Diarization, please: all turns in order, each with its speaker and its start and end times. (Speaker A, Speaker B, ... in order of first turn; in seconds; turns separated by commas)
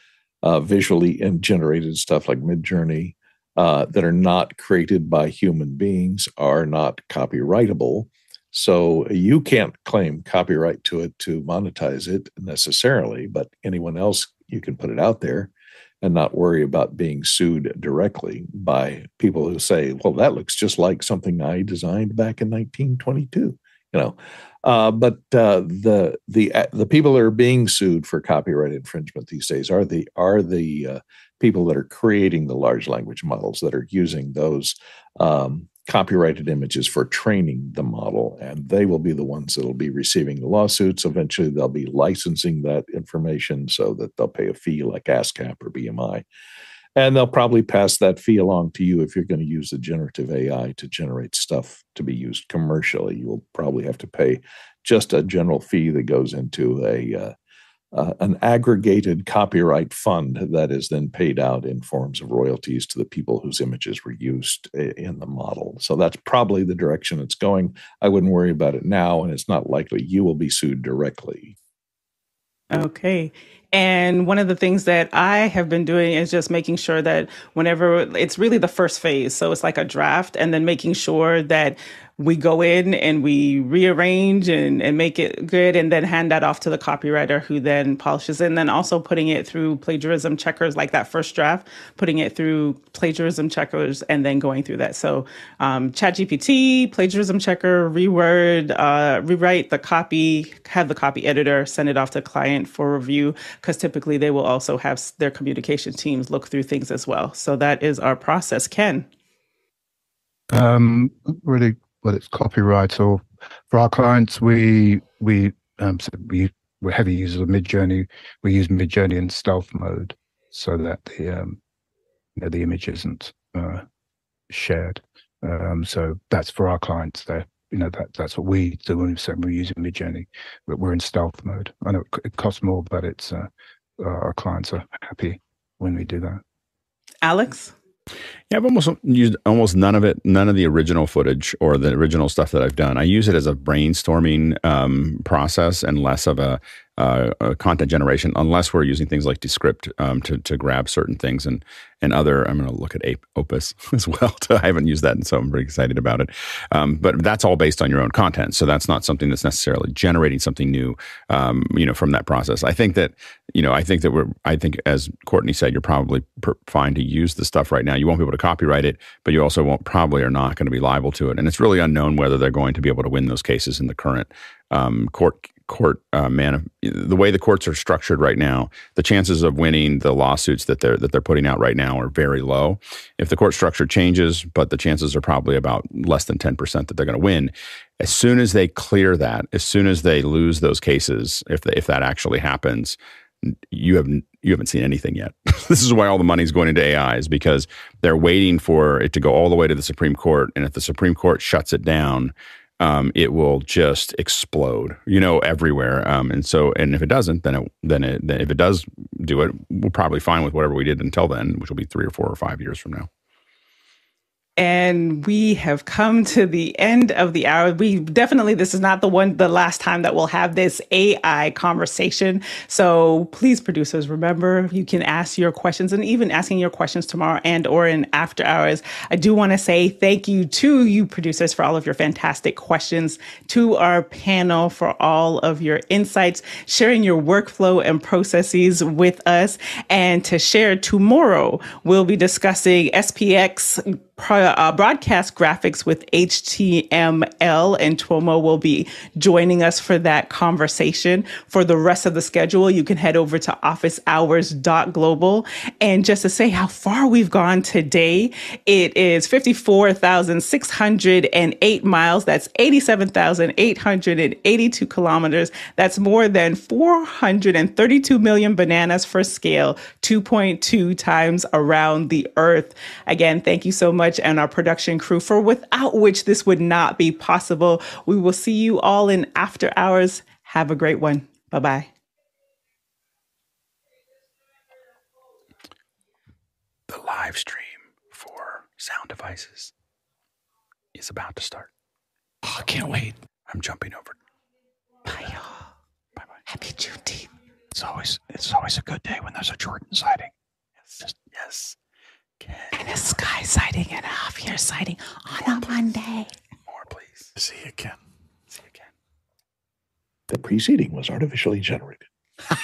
Speaker A: 0.4-46.2, Speaker A: 47.0-57.3, Speaker A: 57.9-71.5, Speaker B: 72.7-109.1, Speaker C: 110.5-121.6, Speaker C: 122.3-123.8, Speaker C: 124.5-133.5, Speaker C: 134.0-136.4, Speaker B: 137.2-137.7, Speaker D: 138.5-213.1, Speaker B: 214.6-281.9, Speaker D: 286.9-289.7, Speaker D: 290.9-291.7, Speaker D: 293.5-294.1, Speaker B: 295.1-295.6, Speaker B: 296.5-297.3, Speaker E: 297.9-300.3, Speaker D: 301.3-301.8, Speaker D: 302.4-302.7, Speaker B: 302.7-306.3, Speaker D: 306.7-307.3, Speaker A: 310.3-312.1